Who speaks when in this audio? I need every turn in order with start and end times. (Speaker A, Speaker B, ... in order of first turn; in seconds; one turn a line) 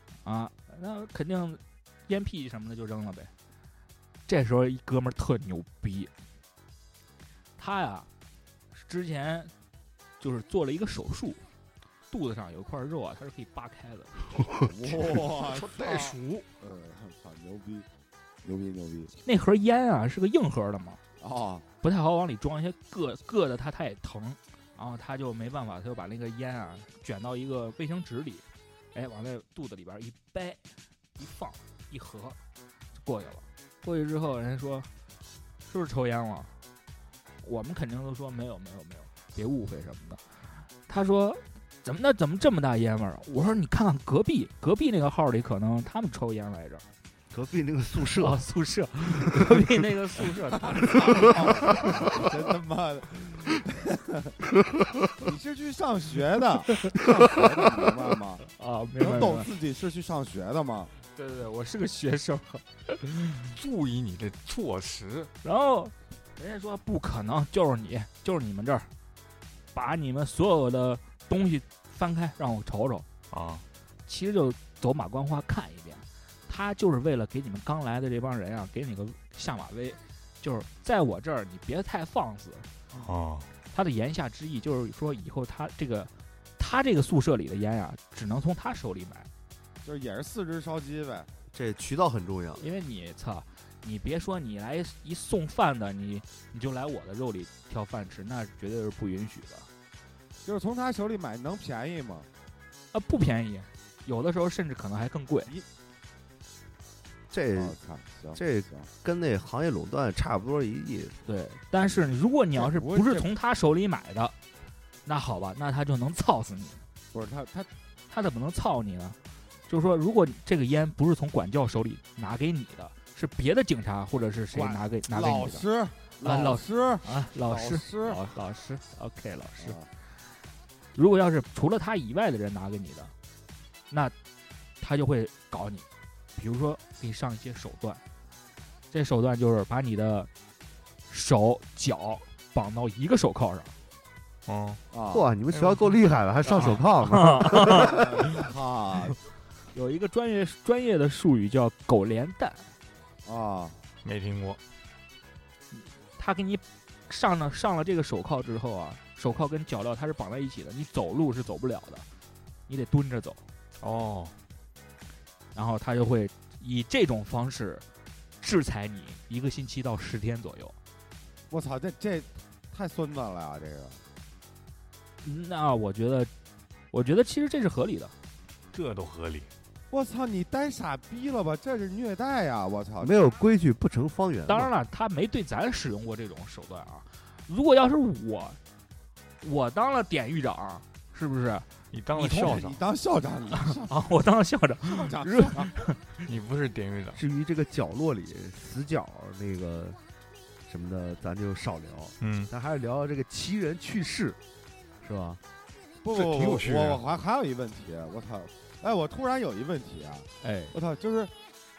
Speaker A: 0.2-3.3
Speaker A: 4.3-6.1
Speaker A: 7.6-8.1
Speaker A: 8.7-9.5
Speaker A: 10.2-11.4
Speaker A: 12.1-14.2
Speaker B: 14.6-17.9
Speaker C: 15.1-16.5
Speaker B: 18.4-19.1
Speaker A: 19.2-21.0
Speaker B: 21.2-21.7
Speaker A: 21.8-30.6
Speaker A: 31.2-32.4
Speaker A: 33.0-34.9
Speaker A: 35.7-36.5
Speaker A: 37.4-40.2
Speaker A: 40.9-46.8
Speaker D: 47.3-48.4
Speaker A: 48.2-51.6
Speaker D: 49.1-49.7
Speaker B: 50.7-54.4
Speaker B: 55.2-58.5
Speaker A: 58.5-59.5
Speaker B: 59.0-60.9
Speaker A: 61.1-63.5
Speaker C: 63.5-65.3
Speaker A: 65.4-68.9
Speaker A: 69.7-73.1
Speaker C: 73.3-73.7
Speaker A: 74.1-82.7
Speaker C: 82.9-83.5
Speaker A: 83.7-89.3
Speaker B: 89.8-91.3
Speaker D: 91.5-92.7
Speaker A: 92.6-99.7
Speaker B: 100.4-102.3
Speaker A: 102.9-105.5
Speaker D: 107.3-107.8
Speaker B: 107.5-108.9
Speaker D: 108.3-111.2
Speaker A: 111.2-114.3
Speaker B: 112.5-113.3
Speaker A: 115.1-116.8
Speaker B: 117.1-117.7
Speaker A: 118.1-119.2
Speaker A: 119.7-125.7
Speaker B: 124.5-128.2
Speaker A: 126.2-129.8
Speaker B: 129.6-129.9
Speaker A: 130.9-133.1
Speaker A: 134.8-138.0
Speaker A: 138.9-140.3
Speaker A: 141.1-143.7
Speaker C: 144.5-144.8
Speaker B: 144.9-145.3
Speaker D: 145.1-148.0
Speaker C: 145.5-145.8
Speaker A: 146.4-148.0
Speaker B: 147.7-149.2
Speaker A: 149.7-152.7
Speaker B: 153.2-153.8
Speaker C: 154.0-154.6
Speaker A: 155.7-162.1
Speaker A: 162.7-163.4
Speaker C: 163.8-164.3
Speaker A: 165.5-167.8
Speaker A: 168.4-170.8
Speaker B: 171.5-174.0
Speaker A: 175.2-176.3
Speaker A: 176.9-178.1
Speaker C: 178.7-179.5
Speaker B: 179.9-183.3
Speaker D: 183.0-184.7
Speaker A: 184.5-188.6
Speaker A: 189.4-192.6
Speaker C: 191.9-192.8
Speaker B: 192.4-194.0
Speaker A: 193.8-196.0
Speaker B: 194.8-195.7
Speaker C: 196.2-197.2
Speaker D: 197.1-200.0
Speaker D: 200.7-204.4
Speaker C: 202.2-202.5
Speaker D: 205.0-205.4
Speaker B: 206.0-211.3
Speaker C: 206.1-207.0
Speaker A: 210.4-210.8